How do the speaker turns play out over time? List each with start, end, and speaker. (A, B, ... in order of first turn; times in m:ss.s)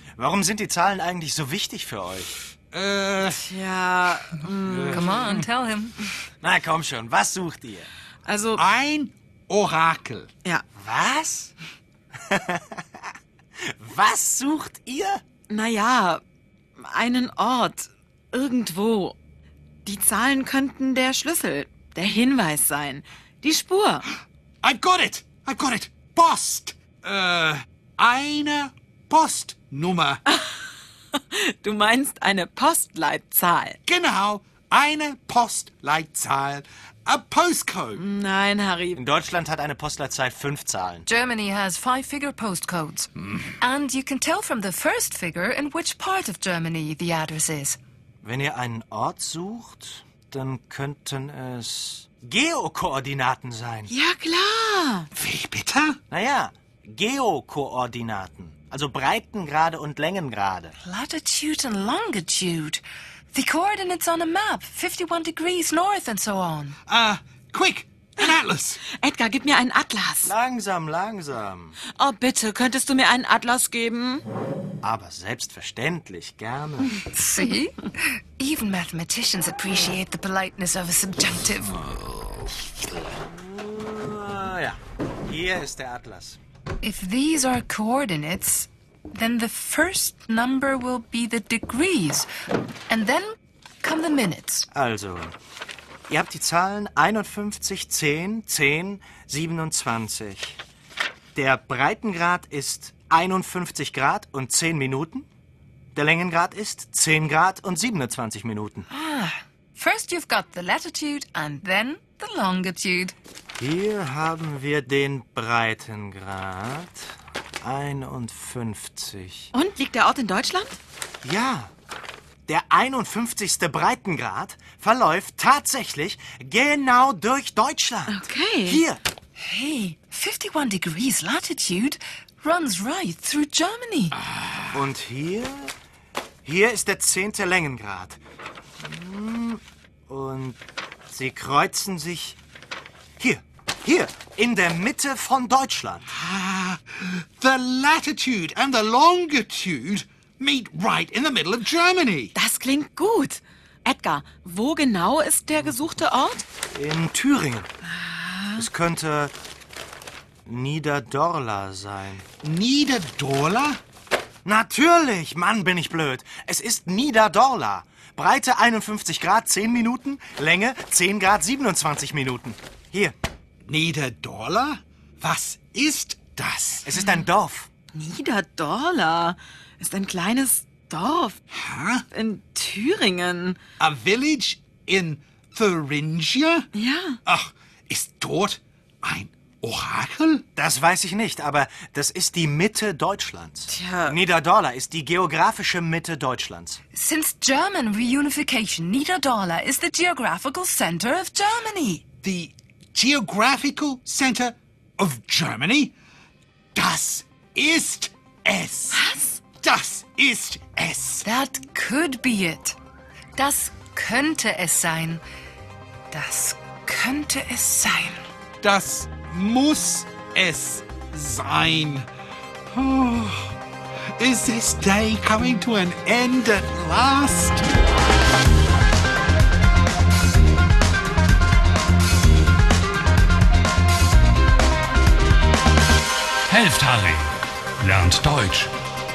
0:00.2-0:02.4 A
0:02.7-0:03.4 B
0:03.3-0:05.1 C
0:04.6-0:05.5 B
0:04.9-0:06.0 D
0:06.4-0:07.9 A
0:08.2-0:08.6 C
0:08.6-0:10.3 B
0:10.7-0:11.5 A
0:12.3-0:12.8 A
0:13.7-0:15.2 A
0:15.5-0:16.2 C
0:16.8-0:19.2 C
0:19.8-0:24.1 C
0:24.6-0:30.2 B
0:30.2-0:33.8 C
0:33.8-0:38.0 B
0:37.9-0:39.0 C
0:39.0-0:41.0 A
0:41.0-0:47.8 D
0:48.2-0:53.9 A
0:53.9-0:55.1 C
0:55.1-0:56.0 B
0:56.1-1:00.7 A
1:00.8-1:06.8 D
1:06.9-1:08.8 B
1:08.9-1:10.3 C
1:10.2-1:11.8 A
1:11.9-1:14.2 C
1:14.8-1:17.0 A
1:17.0-1:21.8 D
1:23.0-1:26.4 A
1:26.8-1:32.3 D
1:32.9-1:34.7 D
1:34.7-1:35.3 A
1:36.1-1:40.6 A
1:41.3-1:45.3 A
1:45.9-1:48.8 A
1:48.9-1:53.1 D
1:53.6-1:57.1 A
1:57.6-1:59.5 A
1:59.5-2:00.8 C
2:01.2-2:01.7 A
2:02.5-2:09.0 A
2:08.1-2:08.8 C
2:09.4-2:14.2 D
2:14.7-2:15.7 A
2:16.4-2:18.2 A
2:18.8-2:20.6 A
2:21.1-2:22.4 A
2:23.2-2:26.1 A
2:26.1-2:32.3 B
2:32.3-2:36.4 C
2:36.7-2:37.7 A
2:37.9-2:38.7 C
2:38.6-2:39.3 A
2:40.4-2:42.2 A
2:42.4-2:43.8 B
2:44.4-2:53.1 A
2:53.6-2:56.9 B
2:56.8-2:57.7 A
2:56.9-2:57.2 C
2:57.9-3:01.4 C
3:01.5-3:02.0 B
3:02.1-3:03.6 C
3:03.8-3:06.7 B
3:06.7-3:07.2 C
3:07.2-3:10.4 B
3:10.6-3:16.8 A
3:13.7-3:14.2 C
3:16.9-3:22.0 D
3:22.2-3:25.9 B
3:26.7-3:29.0 B
3:28.9-3:29.4 C
3:29.6-3:31.3 B
3:31.2-3:32.8 D
3:33.4-3:35.2 D
3:36.1-3:38.2 D
3:38.6-3:42.1 B
3:42.7-3:43.5 B
3:44.2-3:47.7 B
3:56.5-3:58.7 E